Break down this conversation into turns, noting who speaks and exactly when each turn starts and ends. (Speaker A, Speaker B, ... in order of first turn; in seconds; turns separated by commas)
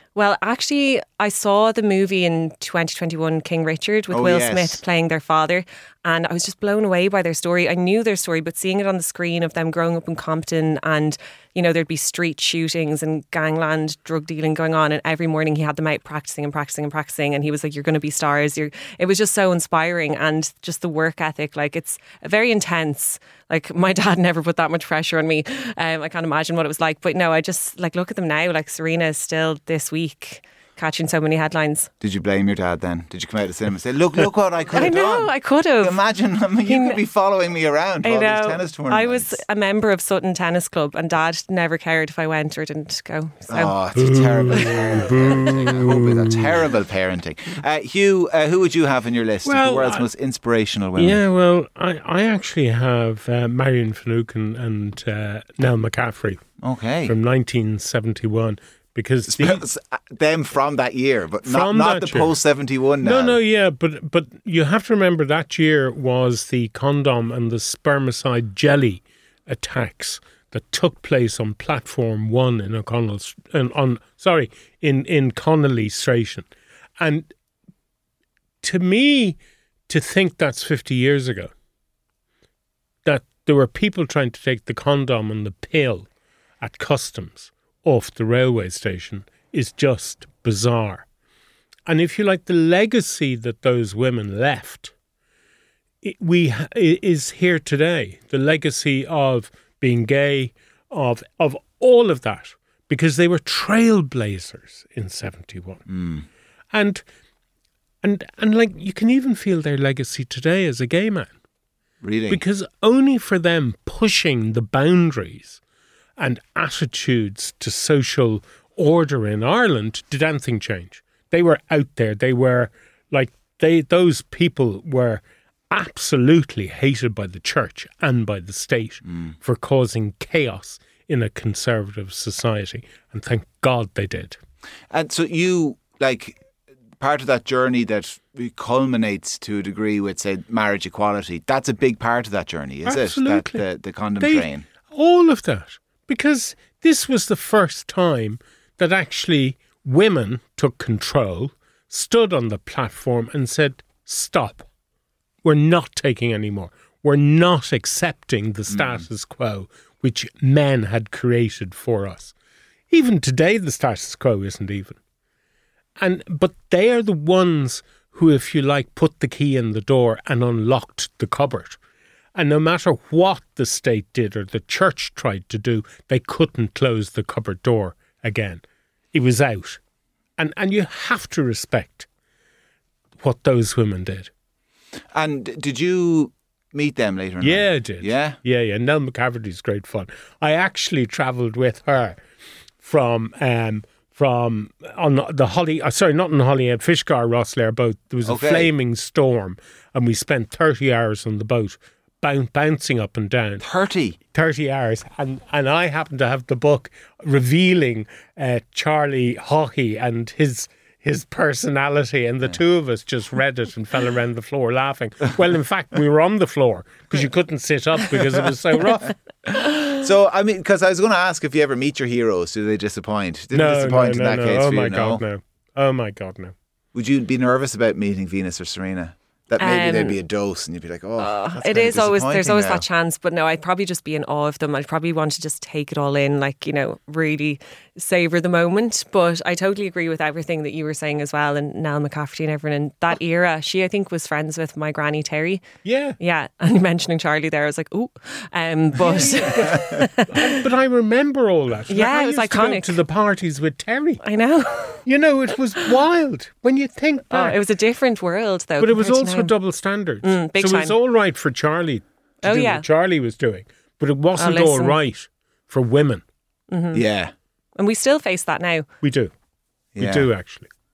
Speaker A: 0.1-31.9, Speaker B: 4.1-4.8, Speaker B: 32.0-39.4, Speaker A: 34.7-36.0, Speaker A: 36.6-37.0, Speaker A: 38.0-43.7, Speaker B: 43.5-51.2, Speaker C: 43.9-46.6, Speaker C: 49.4-50.0, Speaker C: 51.0-56.4, Speaker B: 56.6-57.1, Speaker C: 57.0-59.6, Speaker B: 59.3-63.4, Speaker C: 61.4-62.3, Speaker C: 63.0-76.5, Speaker C: 77.0-77.3, Speaker C: 78.6-79.4, Speaker C: 79.9-81.5, Speaker C: 83.0-86.1, Speaker C: 86.6-91.0, Speaker C: 91.9-94.9, Speaker C: 96.0-105.8, Speaker B: 105.9-106.2, Speaker C: 106.7-107.0, Speaker C: 108.0-111.3, Speaker B: 112.0-112.4, Speaker C: 112.3-115.6, Speaker C: 116.2-134.4, Speaker B: 134.9-136.4, Speaker B: 137.0-144.6, Speaker C: 142.8-143.6, Speaker C: 144.2-154.6, Speaker C: 155.4-162.3, Speaker B: 158.7-159.0, Speaker C: 162.9-165.0, Speaker C: 166.0-171.8, Speaker C: 172.3-179.8, Speaker C: 180.4-182.1, Speaker C: 183.2-184.3, Speaker B: 185.1-188.4, Speaker C: 187.4-192.2, Speaker C: 192.8-203.6, Speaker B: 198.2-198.7, Speaker B: 203.6-204.2, Speaker C: 204.3-219.1, Speaker B: 219.4-225.2, Speaker C: 223.5-226.5, Speaker B: 226.9-232.8, Speaker A: 229.6-230.2, Speaker A: 231.2-245.6, Speaker C: 245.8-246.2, Speaker A: 246.2-250.6, Speaker C: 249.0-254.2, Speaker A: 251.9-253.0, Speaker A: 254.2-255.0, Speaker C: 255.0-257.6, Speaker A: 257.3-259.5, Speaker C: 258.8-266.2, Speaker A: 260.2-260.9, Speaker A: 262.4-262.9, Speaker A: 264.4-265.0, Speaker A: 266.7-267.0, Speaker B: 266.9-267.3, Speaker A: 267.8-268.9, Speaker C: 269.0-269.3, Speaker B: 269.9-270.3, Speaker C: 270.0-270.7